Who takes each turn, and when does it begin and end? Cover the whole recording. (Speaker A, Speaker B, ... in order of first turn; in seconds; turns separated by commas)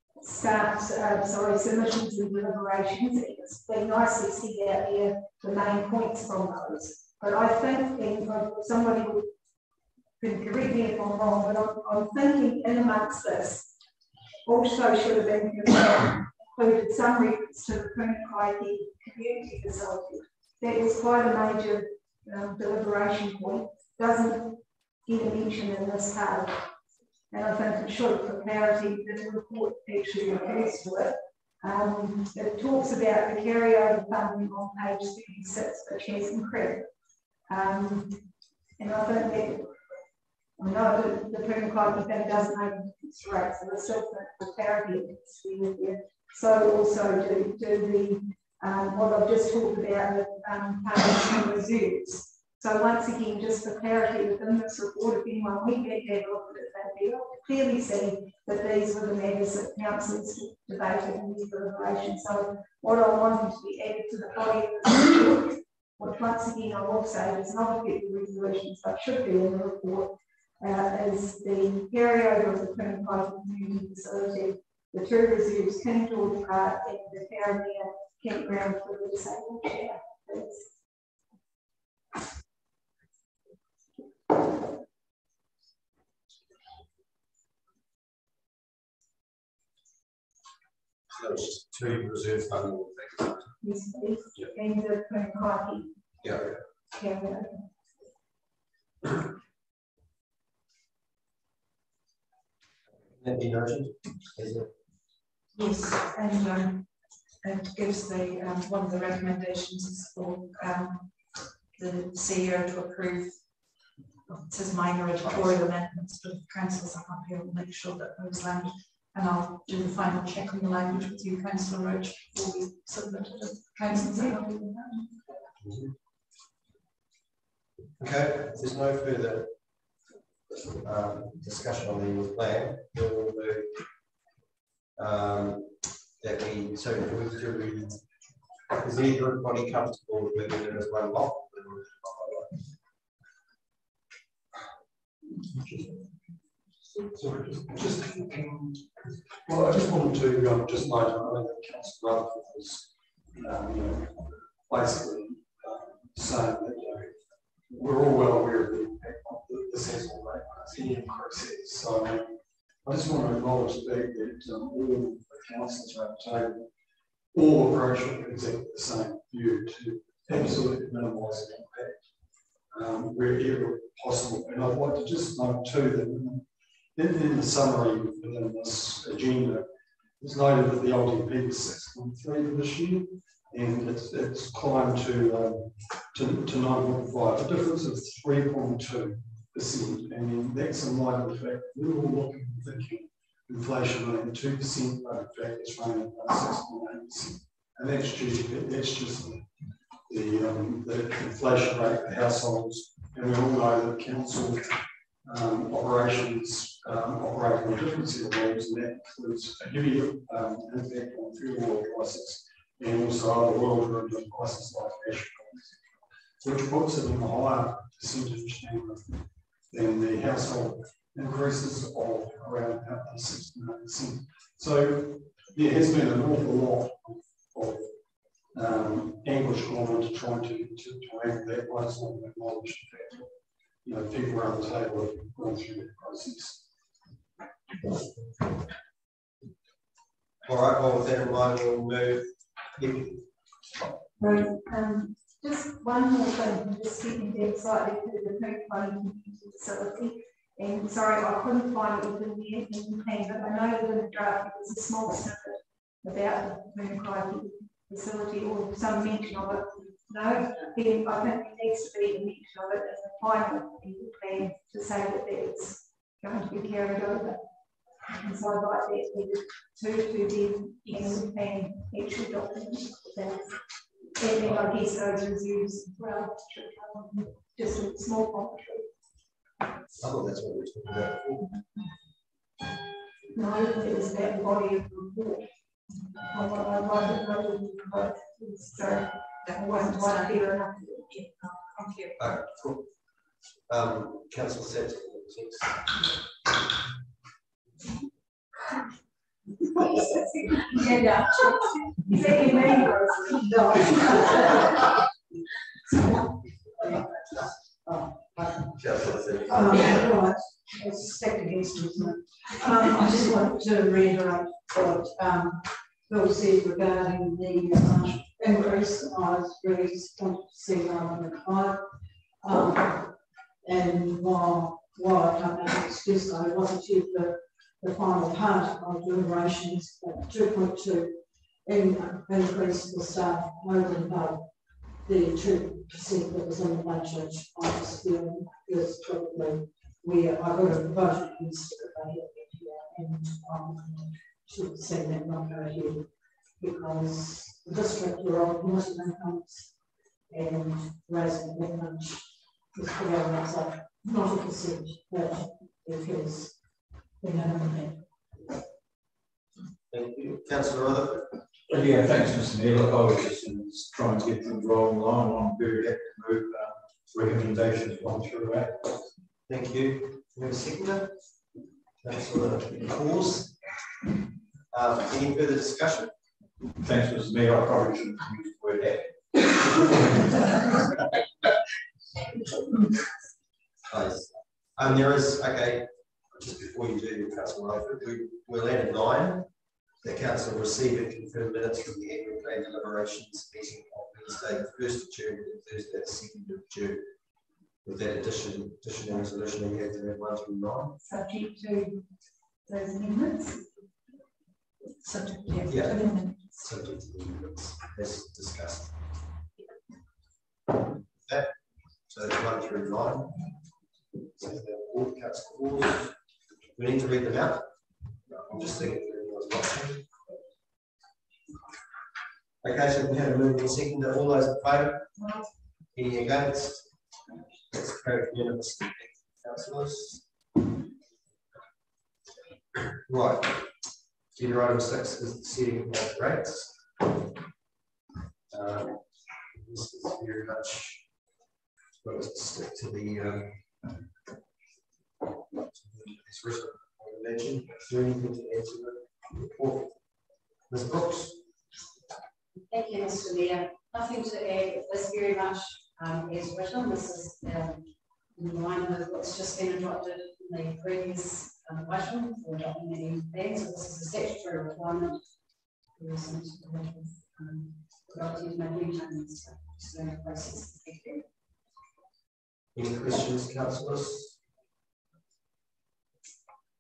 Speaker A: 0.2-9.3, Speaker A: 10.2-13.7, Speaker A: 14.5-24.6, Speaker A: 25.1-26.6, Speaker A: 27.3-36.8, Speaker A: 37.5-38.1, Speaker A: 38.8-39.7, Speaker A: 40.6-80.7, Speaker B: 91.1-93.5, Speaker A: 93.6-95.9, Speaker B: 96.2-96.6, Speaker A: 96.9-97.6, Speaker B: 103.1-104.7, Speaker C: 105.6-106.8, Speaker C: 107.4-111.1, Speaker C: 111.8-113.3, Speaker C: 114.3-124.6, Speaker A: 124.3-124.8, Speaker B: 125.6-125.9, Speaker B: 128.0-129.5, Speaker B: 130.8-133.7, Speaker B: 135.0-138.0, Speaker B: 138.7-142.6, Speaker D: 145.6-145.9, Speaker D: 147.1-148.8, Speaker D: 149.5-152.8, Speaker D: 153.4-157.1, Speaker D: 157.7-162.3, Speaker D: 162.8-166.6, Speaker D: 167.3-171.9, Speaker D: 172.7-176.4, Speaker D: 177.0-179.7, Speaker D: 180.2-199.4, Speaker D: 200.1-204.7, Speaker D: 205.2-215.7, Speaker D: 216.4-219.1, Speaker D: 219.7-227.9, Speaker D: 228.5-233.3, Speaker D: 233.8-236.6, Speaker B: 240.4-243.2, Speaker A: 244.2-267.4, Speaker A: 268.2-273.5, Speaker A: 274.2-278.9, Speaker B: 280.0-281.5, Speaker A: 283.3-285.4, Speaker A: 286.3-291.0, Speaker C: 289.4-292.3, Speaker B: 292.2-292.8, Speaker B: 293.7-295.8, Speaker A: 299.8-301.1, Speaker A: 302.0-304.0, Speaker E: 303.4-304.8, Speaker E: 306.8-307.1, Speaker E: 307.9-308.7, Speaker B: 308.8-310.1, Speaker E: 309.5-321.8, Speaker E: 322.4-323.1, Speaker E: 323.6-331.1, Speaker E: 331.6-334.4, Speaker E: 335.1-346.1, Speaker E: 346.6-349.7, Speaker E: 350.3-356.5, Speaker E: 357.2-358.0, Speaker B: 359.9-361.4, Speaker F: 361.7-368.8, Speaker B: 369.5-371.1, Speaker B: 372.0-373.5, Speaker B: 374.7-376.1, Speaker F: 376.8-379.1, Speaker F: 379.8-380.2, Speaker B: 383.9-389.5, Speaker B: 390.0-397.1, Speaker B: 397.8-401.0, Speaker A: 401.1-402.0, Speaker A: 402.7-403.6, Speaker C: 405.0-406.5, Speaker B: 405.7-406.0, Speaker B: 406.6-409.0, Speaker B: 411.1-411.5, Speaker B: 412.1-413.4, Speaker B: 414.4-416.1, Speaker B: 416.8-417.7, Speaker B: 418.3-420.2, Speaker B: 422.6-425.1, Speaker B: 425.9-426.9, Speaker B: 427.7-430.2, Speaker B: 432.9-433.6, Speaker B: 434.4-437.1, Speaker B: 438.5-439.0, Speaker B: 439.5-441.0, Speaker B: 442.0-443.6, Speaker B: 445.5-449.9, Speaker B: 450.7-451.4, Speaker G: 452.6-457.8, Speaker G: 458.4-465.2, Speaker G: 466.0-471.2, Speaker B: 472.8-474.3